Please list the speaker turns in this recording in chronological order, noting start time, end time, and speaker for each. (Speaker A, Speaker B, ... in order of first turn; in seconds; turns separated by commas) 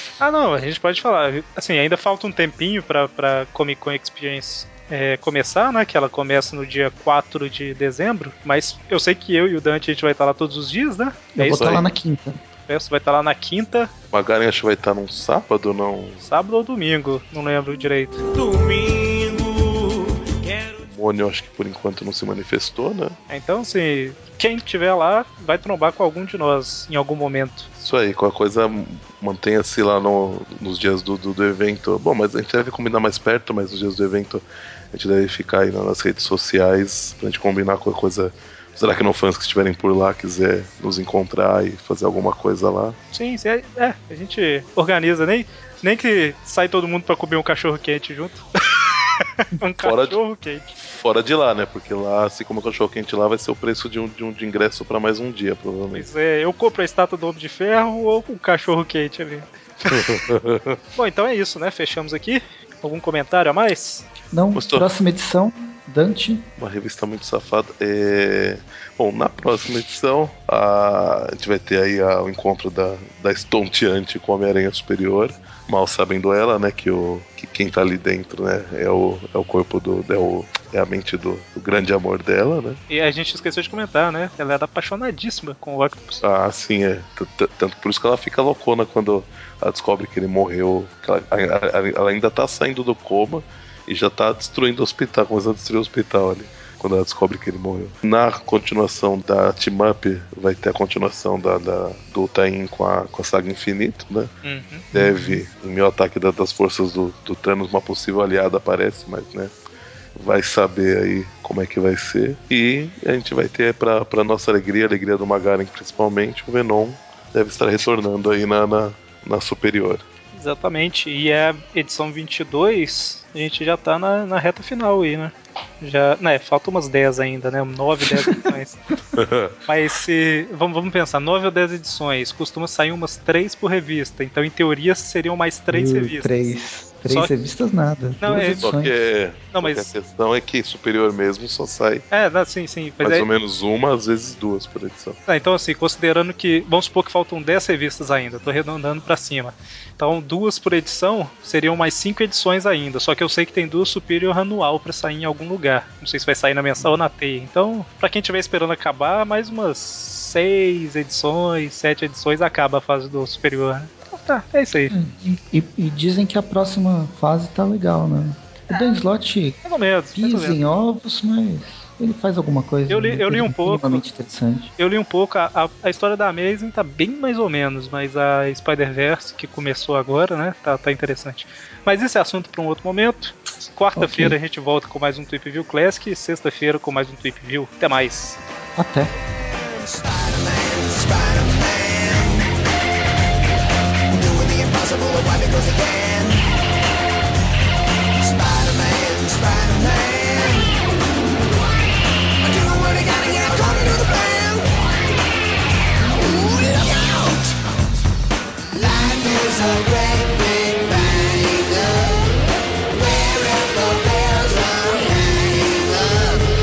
Speaker A: 0.2-11.8, Speaker B: 11.3-12.4, Speaker C: 11.5-11.9, Speaker A: 12.7-13.9, Speaker C: 14.1-16.2, Speaker A: 16.2-20.8, Speaker C: 20.8-23.2, Speaker A: 23.3-27.7, Speaker C: 27.8-43.0, Speaker A: 43.1-48.4, Speaker A: 49.1-50.7, Speaker C: 49.8-50.2, Speaker C: 50.8-56.0, Speaker A: 55.9-60.0, Speaker C: 59.9-60.8, Speaker A: 61.0-64.1, Speaker B: 64.3-66.5, Speaker C: 64.5-64.9, Speaker C: 66.6-82.8, Speaker A: 82.9-86.2, Speaker C: 86.2-104.3, Speaker A: 104.4-104.9, Speaker C: 104.9-109.5, Speaker B: 104.9-105.4, Speaker C: 110.2-120.0, Speaker A: 120.3-128.8, Speaker C: 129.2-129.6, Speaker A: 129.7-136.5, Speaker B: 135.7-138.9, Speaker A: 137.1-137.3, Speaker A: 138.2-138.7, Speaker C: 138.6-142.0, Speaker A: 139.5-139.9, Speaker A: 142.1-143.3, Speaker C: 143.0-145.2, Speaker A: 145.3-164.9, Speaker B: 164.9-169.6, Speaker A: 169.6-170.6, Speaker B: 170.2-174.7, Speaker A: 172.9-174.0, Speaker A: 174.8-188.4, Speaker B: 184.0-184.3, Speaker B: 188.8-189.1, Speaker B: 202.6-204.7, Speaker B: 206.2-207.4, Speaker B: 208.7-212.3, Speaker B: 212.9-216.2